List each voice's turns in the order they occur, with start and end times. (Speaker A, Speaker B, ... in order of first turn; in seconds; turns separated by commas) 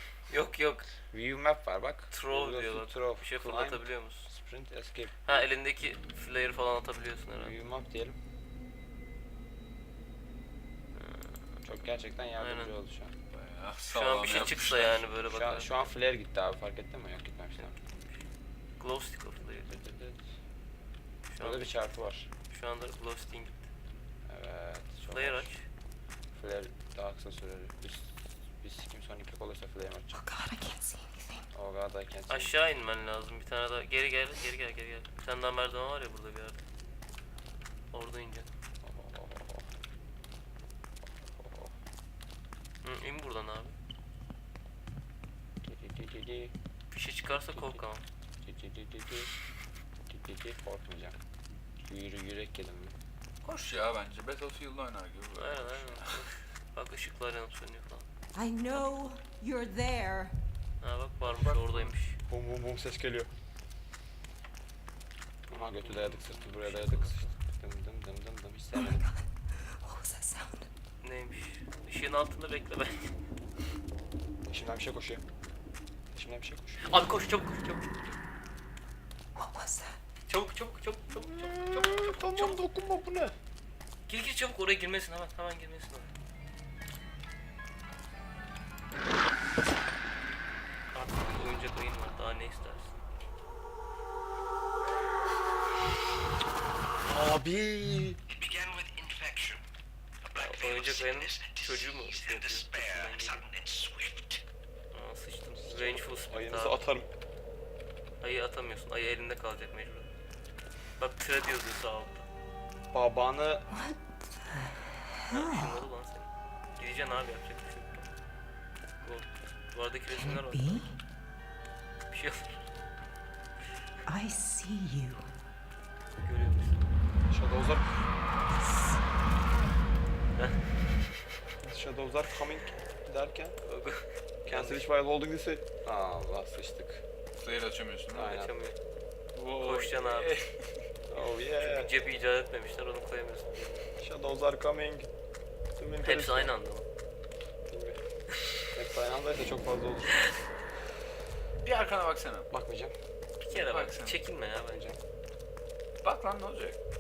Speaker A: 0.3-0.9, Speaker B: 1.1-5.5, Speaker A: 2.1-4.3, Speaker A: 5.2-7.5, Speaker B: 7.4-8.2, Speaker A: 10.9-11.4, Speaker B: 11.6-13.1, Speaker A: 12.4-12.7, Speaker C: 13.3-15.1, Speaker A: 13.9-15.9, Speaker B: 15.3-17.8, Speaker A: 17.6-18.2, Speaker A: 18.8-19.7, Speaker B: 19.6-20.2, Speaker A: 21.3-21.7, Speaker B: 21.4-22.3, Speaker A: 22.5-23.7, Speaker B: 24.2-25.5, Speaker A: 25.1-25.6, Speaker B: 26.3-30.2, Speaker D: 30.1-31.5, Speaker B: 31.5-32.5, Speaker A: 32.3-36.6, Speaker A: 37.9-38.5, Speaker B: 38.8-39.7, Speaker B: 41.0-41.7, Speaker A: 42.8-43.7, Speaker B: 45.6-46.5, Speaker A: 46.9-48.0, Speaker B: 48.4-49.3, Speaker B: 50.1-51.1, Speaker B: 51.8-52.9, Speaker C: 53.4-56.2, Speaker A: 55.4-58.1, Speaker D: 58.3-60.4, Speaker A: 60.8-62.2, Speaker C: 61.2-61.9, Speaker B: 62.3-63.3, Speaker B: 65.5-69.0, Speaker A: 65.5-67.3, Speaker D: 68.7-70.7, Speaker A: 71.0-73.1, Speaker B: 74.4-75.2, Speaker B: 76.1-76.8, Speaker A: 76.8-78.2, Speaker D: 79.3-80.0, Speaker A: 80.3-82.6, Speaker B: 81.1-83.3, Speaker A: 84.1-86.1, Speaker A: 90.9-92.9, Speaker B: 97.0-98.2, Speaker E: 98.3-99.6, Speaker E: 100.2-104.4, Speaker A: 100.4-103.4, Speaker A: 104.9-106.8, Speaker B: 105.6-107.1, Speaker A: 108.2-110.1, Speaker A: 111.0-112.3, Speaker B: 112.9-113.6, Speaker D: 113.7-115.8, Speaker A: 115.3-118.0, Speaker A: 119.0-120.8, Speaker D: 120.1-121.0, Speaker A: 122.1-122.6, Speaker D: 124.0-125.3, Speaker A: 126.2-126.8, Speaker B: 127.3-127.9, Speaker B: 131.6-133.6, Speaker A: 133.6-134.9, Speaker B: 134.4-137.0, Speaker C: 137.4-138.4, Speaker B: 138.1-138.5, Speaker A: 138.2-138.8, Speaker C: 139.3-140.6, Speaker A: 139.5-140.4, Speaker B: 141.1-141.9, Speaker A: 141.6-143.9, Speaker B: 144.0-145.1, Speaker B: 145.7-146.5, Speaker A: 146.0-146.8, Speaker B: 147.7-148.0, Speaker B: 148.7-150.3, Speaker C: 151.6-152.5, Speaker B: 152.5-152.9, Speaker A: 153.4-154.8, Speaker C: 153.5-154.2, Speaker B: 154.5-155.0, Speaker C: 156.0-156.8